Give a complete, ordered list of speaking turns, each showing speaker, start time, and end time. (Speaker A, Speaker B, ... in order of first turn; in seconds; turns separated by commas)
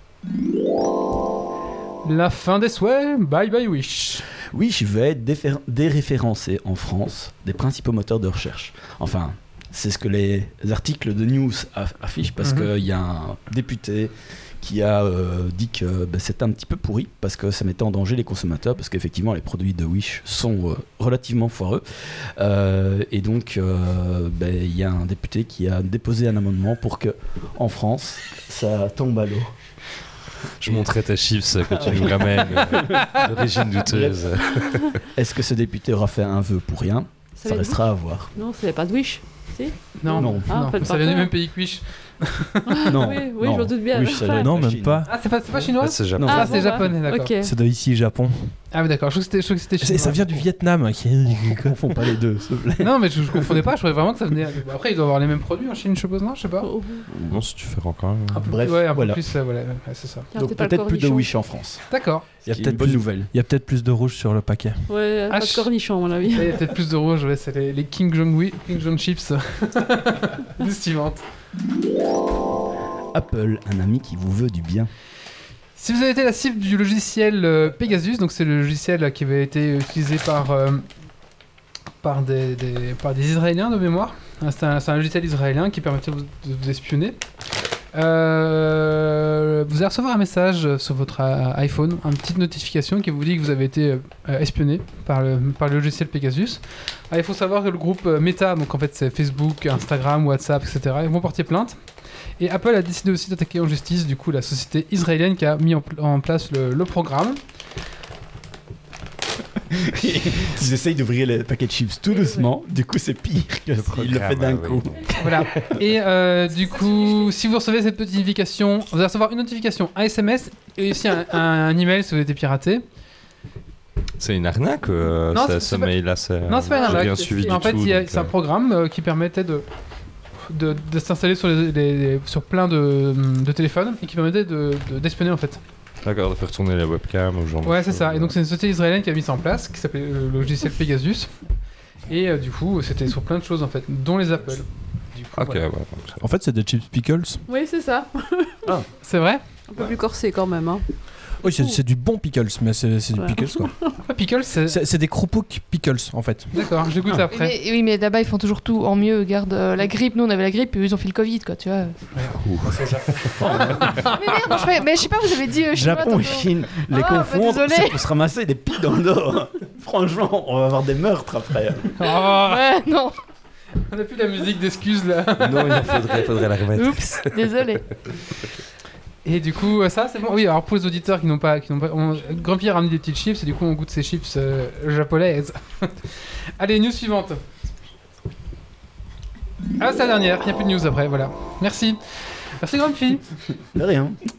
Speaker A: 2.0-4.3, Speaker B: 4.4-29.8, Speaker A: 12.4-12.7, Speaker C: 30.6-35.0, Speaker B: 30.6-30.9, Speaker B: 31.7-33.3, Speaker B: 33.8-34.4, Speaker B: 35.1-38.3, Speaker D: 37.4-41.3, Speaker A: 40.0-42.9, Speaker B: 40.2-40.8, Speaker D: 42.7-44.5, Speaker B: 42.9-45.0, Speaker E: 44.4-45.3, Speaker A: 45.1-47.3, Speaker C: 45.8-46.9, Speaker D: 46.2-47.5, Speaker E: 47.4-48.6, Speaker A: 48.7-50.5, Speaker E: 49.8-52.0, Speaker B: 51.3-53.6, Speaker A: 52.8-56.7, Speaker D: 56.6-57.1, Speaker C: 57.2-58.4, Speaker A: 58.4-60.3, Speaker B: 58.4-59.2, Speaker D: 60.3-61.3, Speaker B: 60.3-63.3, Speaker A: 61.9-62.2, Speaker E: 62.5-64.9, Speaker D: 64.9-66.6, Speaker A: 65.3-65.7, Speaker A: 66.3-71.2, Speaker B: 73.1-74.9, Speaker A: 75.8-80.8, Speaker A: 82.0-87.2, Speaker A: 87.9-101.8, Speaker A: 102.4-107.4, Speaker B: 109.7-115.7, Speaker D: 112.1-112.5, Speaker C: 113.7-115.2, Speaker A: 115.2-122.8, Speaker D: 116.6-117.3, Speaker C: 124.2-128.3, Speaker A: 125.3-129.7, Speaker D: 126.7-127.7, Speaker A: 130.5-135.6, Speaker C: 136.0-138.3, Speaker A: 137.7-141.5, Speaker A: 142.1-145.6, Speaker C: 145.4-146.2, Speaker E: 146.2-147.4, Speaker D: 147.5-148.7, Speaker A: 149.0-149.4, Speaker D: 149.7-151.8, Speaker E: 151.4-153.7, Speaker D: 153.2-154.0, Speaker A: 154.1-154.8, Speaker E: 154.7-156.6, Speaker A: 156.5-157.5, Speaker F: 157.3-162.1, Speaker E: 162.6-163.2, Speaker B: 163.4-163.7, Speaker F: 163.9-168.1, Speaker B: 165.7-172.0, Speaker A: 172.0-172.6, Speaker F: 172.2-173.2, Speaker A: 173.8-176.0, Speaker C: 175.4-177.8, Speaker F: 176.8-178.0, Speaker A: 179.2-187.4, Speaker A: 189.8-193.2, Speaker B: 193.7-194.2